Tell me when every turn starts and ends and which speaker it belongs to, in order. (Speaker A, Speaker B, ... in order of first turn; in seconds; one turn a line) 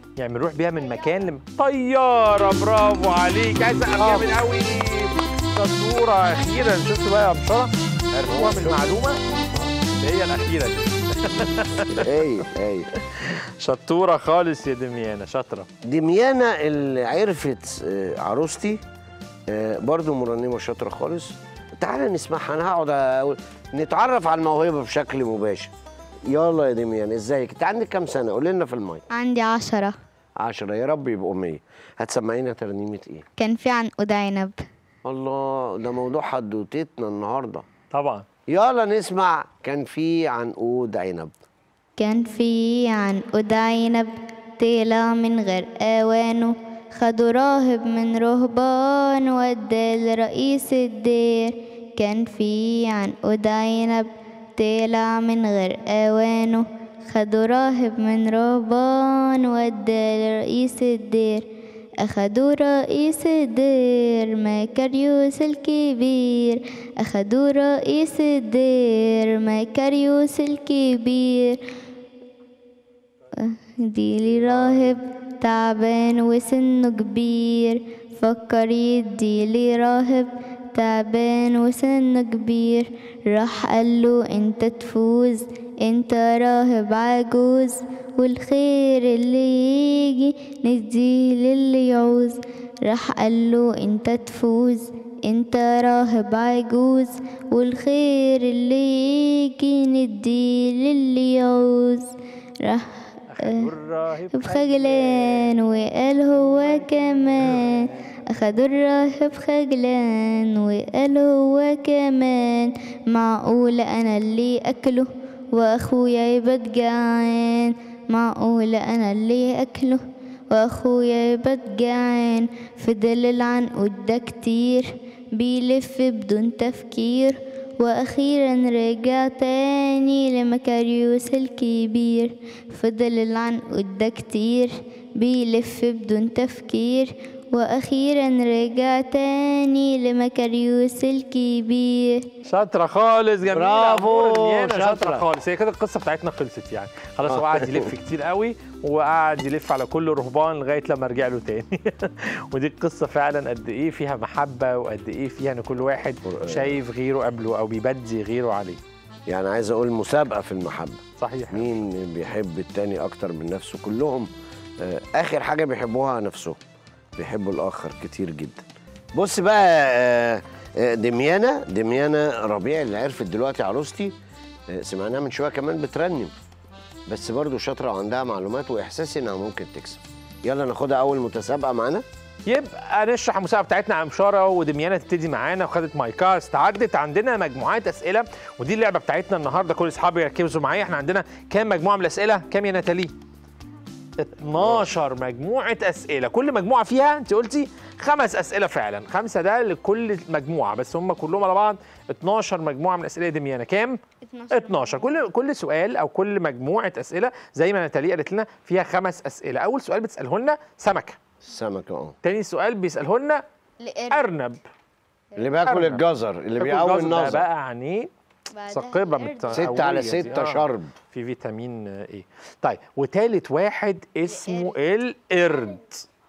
Speaker A: 0.2-7.7
Speaker B: 3.9-4.4
Speaker B: 8.1-9.7
Speaker A: 8.2-9.2
Speaker A: 9.9-12.2
Speaker B: 11.9-12.9
Speaker A: 13.1-15.7
Speaker B: 15.8-18.8
Speaker B: 19.5-25.7
Speaker B: 26.3-29.1
Speaker C: 29.1-30.0
Speaker B: 30.4-33.2
Speaker C: 33.4-34.6
Speaker B: 35.0-37.6
Speaker A: 37.9-38.2
Speaker B: 38.5-41.3
Speaker C: 42.0-61.5
Speaker C: 62.0-71.6
Speaker C: 73.4-102.1
Speaker C: 102.6-103.7
Speaker A: 103.3-105.6
Speaker C: 104.3-142.3
Speaker A: 106.4-107.9
Speaker A: 142.4-158.8
Speaker B: 143.4-145.2
Speaker B: 147.3-147.9
Speaker B: 156.2-156.8
Speaker B: 159.3-164.3
Speaker A: 161.2-161.8
Speaker B: 164.8-166.6
Speaker B: 167.2-174.1
Speaker B: 174.7-176.3
Speaker B: 177.1-182.0
Speaker A: 182.4-193.1
Speaker A: 194.2-204.0
Speaker B: 194.5-194.9
Speaker C: 204.2-205.2
Speaker A: 204.5-211.2
Speaker B: 211.4-212.1
Speaker A: 212.2-213.4
Speaker C: 213.8-214.3
Speaker A: 214.1-214.6
Speaker C: 215.3-215.6
Speaker B: 215.4-217.4
Speaker A: 215.6-216.0
Speaker A: 216.6-218.1
Speaker C: 218.5-220.4
Speaker A: 218.7-226.1
Speaker B: 219.5-220.9
Speaker C: 224.3-224.8